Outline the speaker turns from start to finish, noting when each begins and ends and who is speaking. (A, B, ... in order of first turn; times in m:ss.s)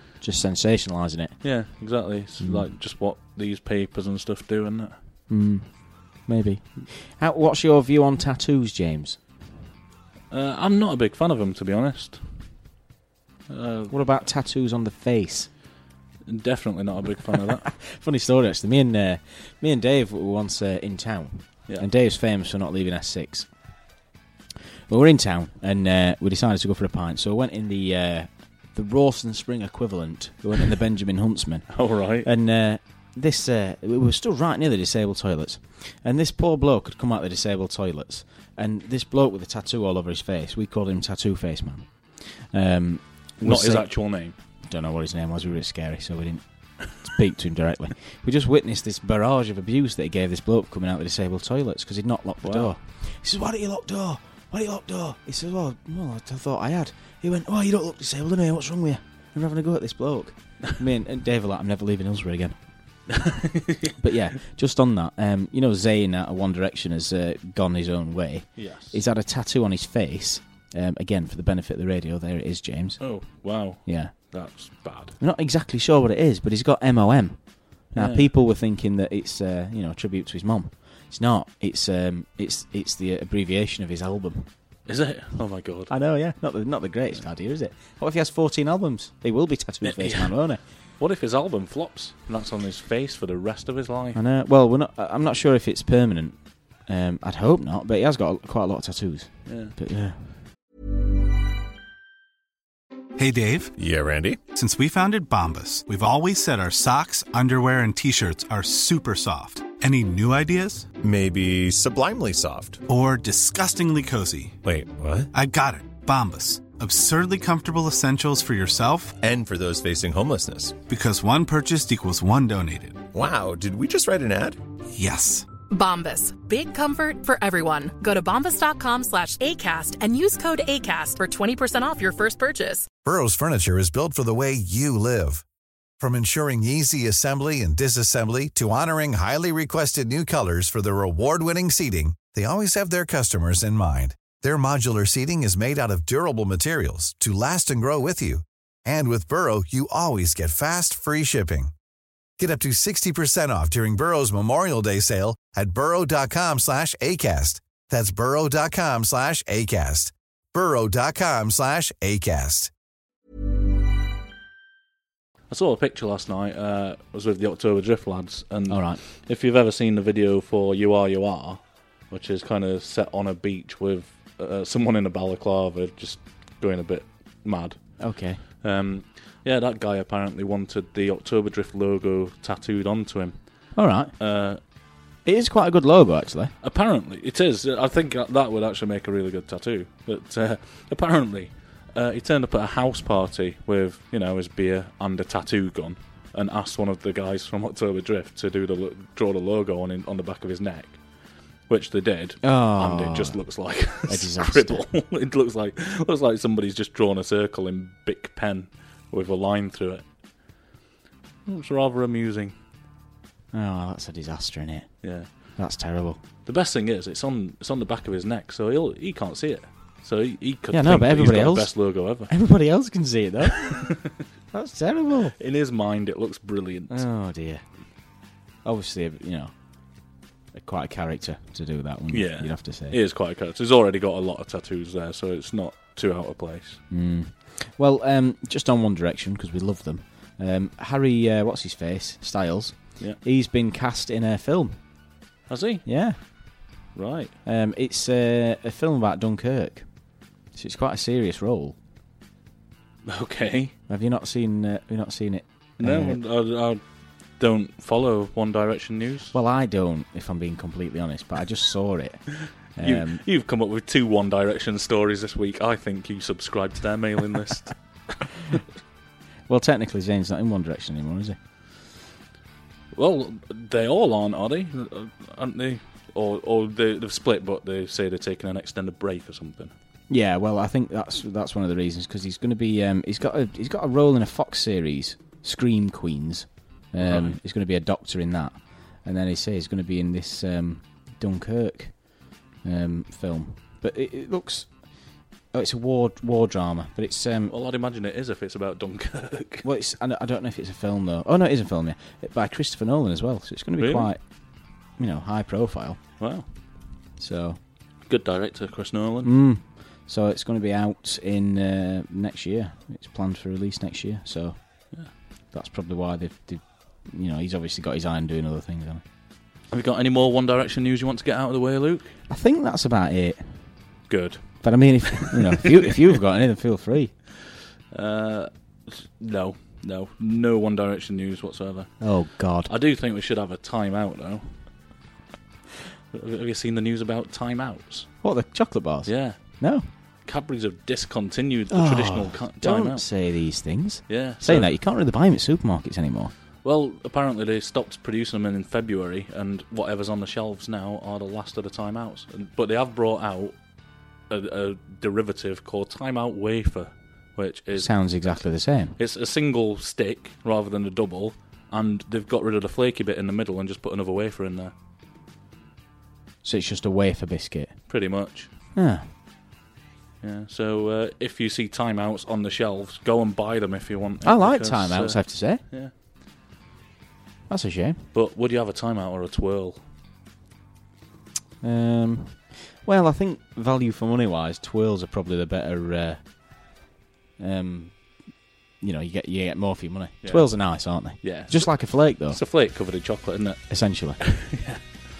0:00.2-0:01.4 A
0:01.4-0:04.9 B
0:02.4-0:02.7 A
0:05.3-0:09.2 A
0:10.3-0:12.2 B
0:13.5-0:14.0 B
0:13.9-0:15.5 A
0:16.2-0:17.7 B
0:17.6-0:23.5 A
0:24.9-0:43.9 A
0:31.7-0:32.3 B
0:43.4-0:44.4 B
0:44.6-1:02.6 A
0:52.4-0:52.7 B
1:03.1-1:04.0 B
1:04.0-1:13.2 A
1:08.6-1:09.0 B
1:13.0-1:15.2 B
1:13.8-1:14.1 A
1:15.2-1:24.5 A
1:18.0-1:18.3 B
1:24.9-1:25.9 B
1:25.9-1:30.6 A
1:29.8-1:30.4 B
1:31.0-1:34.2 B
1:34.1-1:40.3 A
1:39.4-1:39.7 B
1:43.2-1:43.7 C
1:43.8-1:44.4 D
1:44.5-1:50.9 C
1:51.0-1:52.8 D
1:52.8-1:54.6 C
1:54.6-1:55.3 D
1:55.3-1:59.2 C
1:59.2-2:00.8 D
2:00.9-2:03.1 C
2:03.1-2:04.6 D
2:04.9-2:05.5 C
2:05.7-2:12.9 E
2:13.0-2:15.4 F
2:16.0-2:31.7 F
2:32.4-2:42.7 F
2:45.5-2:58.0 B
2:48.7-2:49.0 A
2:58.0-2:58.4 A
2:58.5-3:04.6 B
3:03.7-3:04.1 A
3:05.2-3:06.5 A
3:06.6-3:21.0 B
3:21.7-3:30.0 B
3:22.4-3:23.4 A
3:24.0-3:24.8 A
3:31.4-3:32.5 B
3:33.5-3:35.0 A
3:35.0-3:35.3 B
3:35.6-3:36.2 A
3:36.4-3:42.3 B
3:40.7-3:45.4 A
3:43.6-3:44.0 B
3:45.4-3:47.1 B
3:46.9-3:47.6 A
3:48.6-3:49.5 A
3:50.5-3:53.0 A
3:52.1-3:56.8 B
3:56.9-4:04.8 A
4:05.5-4:05.8 B
4:05.8-4:06.2 A
4:06.9-4:07.3 B
4:07.4-4:09.9 A
4:10.5-4:11.8 A
4:13.1-4:13.7 B
4:13.9-4:16.2 A
4:15.8-4:16.8 B
4:17.4-4:19.3 B
4:19.3-4:23.2 A
4:22.8-4:27.7 B
4:29.5-4:31.4 A
4:32.9-4:39.7 B
4:40.1-4:52.1 A
4:47.0-4:47.4 B
4:52.6-4:54.7 A
4:55.5-4:57.5 A
4:57.5-4:59.6 B
4:59.6-5:04.2 A
5:03.8-5:04.1 B
5:05.0-5:06.0 A
5:06.2-5:06.5 B
5:07.2-5:07.6 A
5:08.1-5:09.4 B
5:09.2-5:14.8 A
5:15.5-5:19.0 A
5:19.7-5:22.1 B
5:22.3-5:23.6 A
5:24.1-5:25.9 B
5:24.6-5:27.1 A
5:27.9-5:31.9 B
5:32.0-5:32.7 A
5:32.6-5:34.6 B
5:36.1-5:38.1 B
5:38.2-5:39.9 A
5:39.0-5:39.4 B
5:40.2-5:43.0 B
5:41.7-5:46.3 A
5:44.1-5:44.7 B
5:46.6-5:53.6 B
5:54.3-5:58.4 B
5:57.7-5:59.0 A
5:59.0-6:04.7 B
6:06.4-6:07.8 A
6:07.9-6:08.5 B
6:08.7-6:09.1 A
6:10.2-6:15.9 B
6:14.2-6:15.6 A
6:17.5-6:18.0 A
6:18.1-6:19.8 B
6:21.6-6:26.2 A
6:27.4-6:28.1 A
6:28.8-6:32.4 A
6:30.2-6:33.6 B
6:33.7-6:34.2 A
6:34.2-6:34.8 B